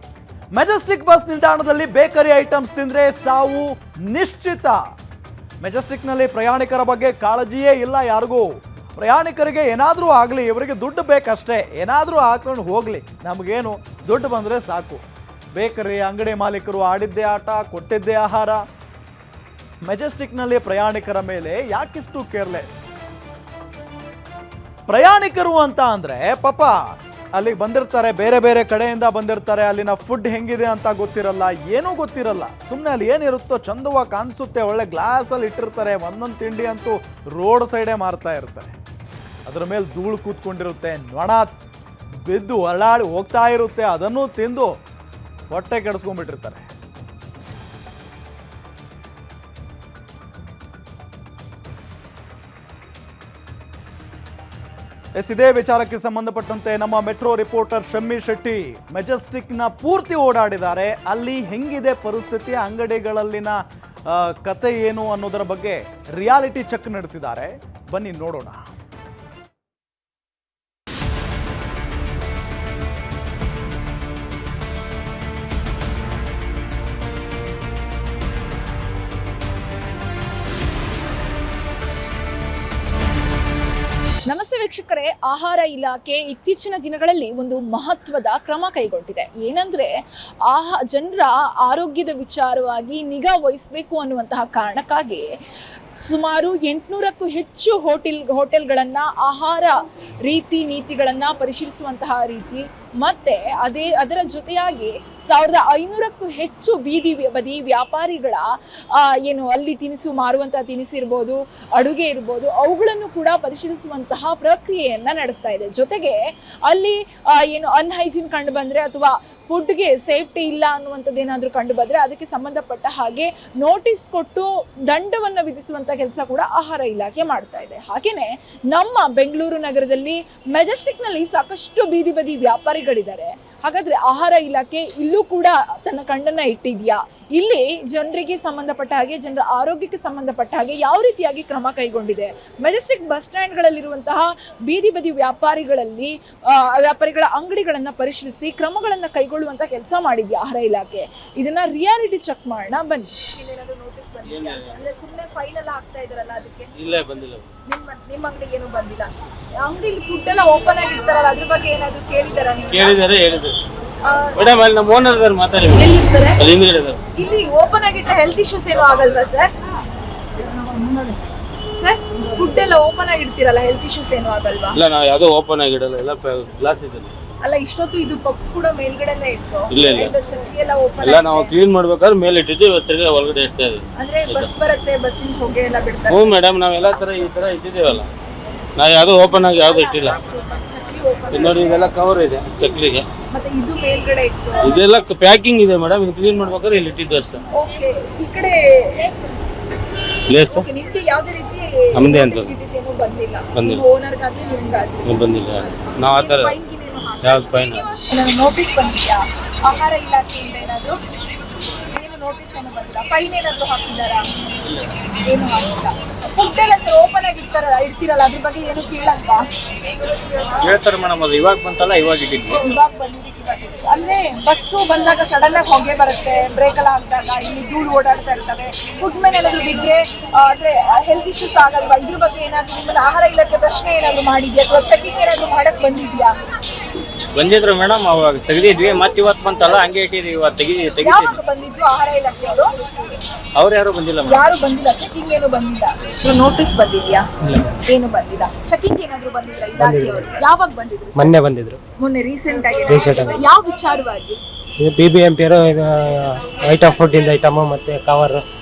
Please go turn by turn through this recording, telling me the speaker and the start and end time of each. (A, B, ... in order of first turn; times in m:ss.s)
0:00.5-0:04.8 A
0:05.6-0:15.0 A
0:15.6-0:18.6 A
0:19.8-0:22.9 A
0:24.9-0:38.8 A
0:39.5-0:41.5 A
0:42.3-0:44.8 A
0:45.5-0:46.7 A
0:55.2-1:08.6 A
1:24.3-1:29.9 B
1:30.5-1:35.3 B
1:36.0-1:56.2 B
1:56.7-2:36.7 B
2:34.3-2:34.9 C
2:36.8-2:37.5 C
2:37.7-2:39.1 B
2:39.6-2:43.0 B
2:42.7-2:43.6 C
2:44.0-2:44.4 B
2:44.4-2:47.0 C
2:45.7-2:46.4 B
2:47.2-2:49.5 B
2:50.4-2:51.2 B
2:51.8-2:54.8 B
2:54.7-2:57.1 C
2:57.4-3:01.5 B
2:59.7-3:00.2 C
3:01.0-3:04.5 C
3:04.0-3:06.4 B
3:06.1-3:08.1 C
3:08.8-3:10.2 C
3:09.7-3:12.0 B
3:11.3-3:13.1 C
3:13.3-3:14.8 B
3:14.6-3:17.4 C
3:17.5-3:19.4 B
3:20.3-3:20.7 C
3:20.5-3:31.0 B
3:21.9-3:22.6 C
3:23.6-3:23.8 C
3:25.0-3:26.6 C
3:27.2-3:27.9 C
3:31.9-3:34.3 B
3:35.2-3:39.4 B
3:40.6-3:42.6 C
3:42.5-3:56.3 B
3:57.4-4:01.4 C
4:01.0-4:03.2 B
4:03.6-4:04.5 C
4:04.2-4:07.3 B
4:07.4-4:07.8 D
4:07.9-4:11.4 B
4:09.8-4:10.3 D
4:11.2-4:11.8 D
4:12.0-4:14.4 B
4:12.9-4:13.4 D
4:14.8-4:18.4 D